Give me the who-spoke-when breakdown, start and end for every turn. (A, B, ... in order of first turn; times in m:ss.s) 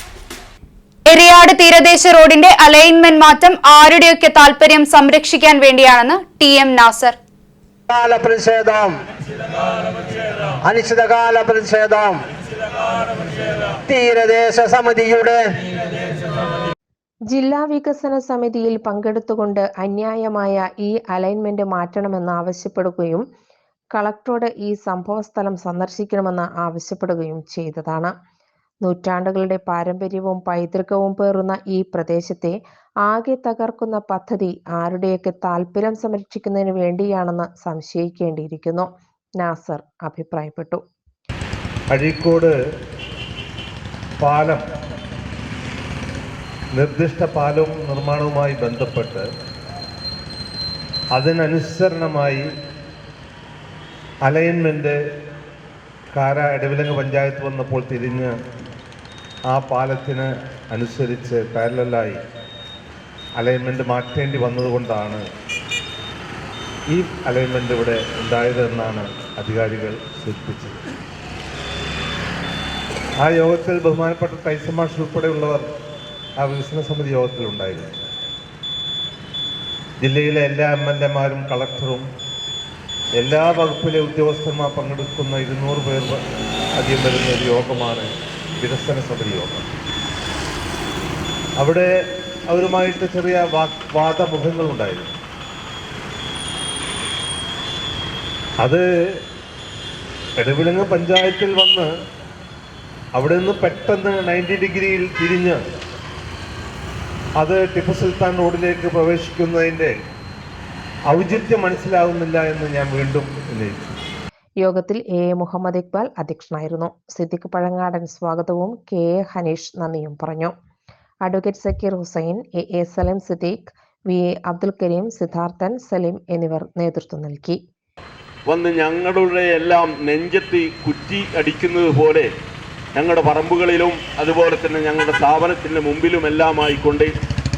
0:01.1-0:07.2 A
0:07.9-0:09.0 B
0:10.1-0:12.2 B
0:13.7-0:15.6 B
0:17.3-0:23.2 C
0:23.9-0:28.1 C
0:28.8-0:38.9 C
0:39.4-0:40.8 C
0:41.9-0:42.5 D
0:44.2-0:44.6 D
0:46.7-0:49.2 D
0:51.1-0:52.4 D
0:54.2-0:55.0 D
0:56.1-0:58.3 D
0:59.5-1:02.2 D
1:03.4-1:05.2 D
1:06.9-1:10.8 D
1:13.2-1:15.6 D
1:16.4-1:17.9 D
1:20.0-1:22.0 D
1:23.2-1:26.2 D
1:26.8-1:28.1 D
1:28.6-1:29.7 D
1:31.6-1:31.9 D
1:32.5-1:35.1 D
1:40.4-1:41.9 D
1:43.2-1:45.6 D
1:47.4-1:49.9 D
1:51.1-1:54.0 D
1:54.6-2:00.5 C
2:01.2-2:07.6 C
2:08.5-2:12.3 E
2:12.9-2:17.1 E